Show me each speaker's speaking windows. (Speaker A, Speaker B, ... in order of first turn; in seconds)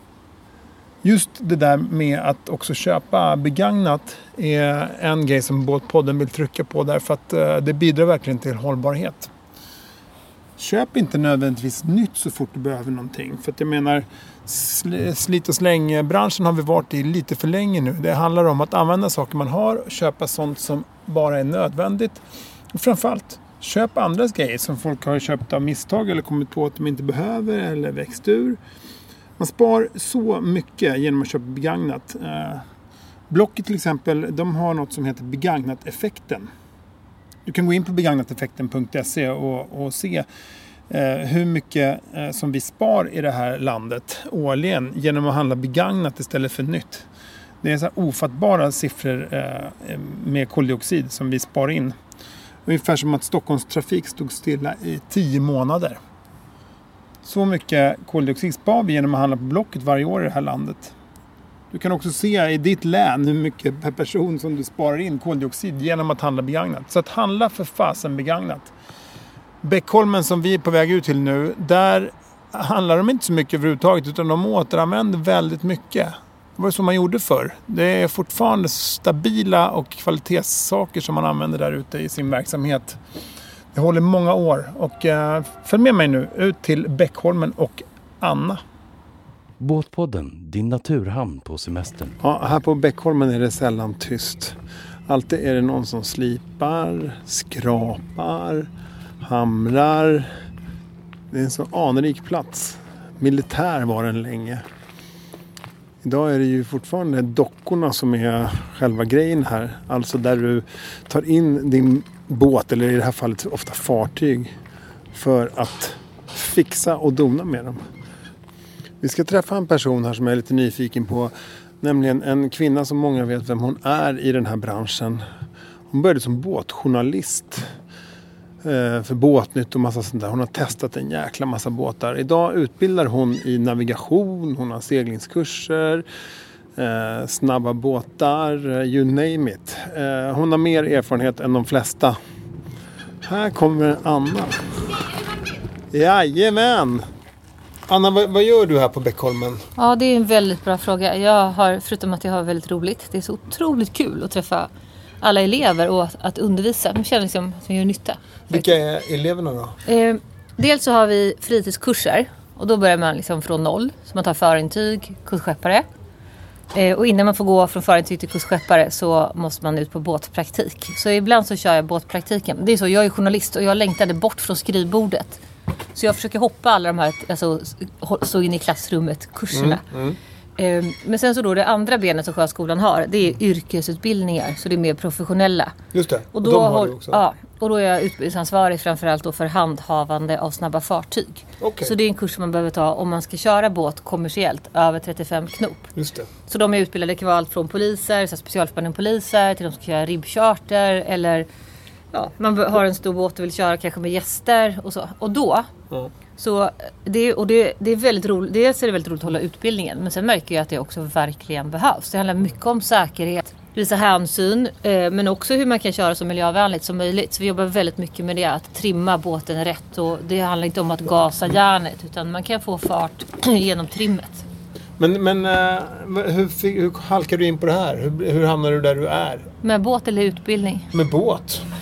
Speaker A: 1.0-9.3, 10.6-22.2, 22.7-28.6, 29.4-32.6, 33.3-36.5, 37.5-40.3, 40.9-47.1, 47.6-52.0, 52.7-56.0, 57.2-61.0, 61.7-68.7, 69.6-83.0, 83.7-88.6, 92.2-94.6, 95.1-98.7, 99.2-100.3, 101.3-104.6, 106.0-114.5, 115.1-117.8, 119.0-125.2, 125.9-127.7, 128.6-136.1, 136.8-142.2, 143.2-144.9, 145.9-147.1, 147.9-149.7, 158.5-159.8, 179.5-180.2, 185.9-187.2, 191.6-191.9, 195.9-196.3, 225.0-229.5, 230.9-231.7
Speaker B: 89.6-92.2
Speaker C: 149.8-154.7, 155.2-158.6, 159.9-165.9, 166.7-175.4, 175.9-179.8, 180.6-185.8, 186.3-195.9, 196.5-201.5, 202.1-205.7, 206.4-224.4, 229.6-230.9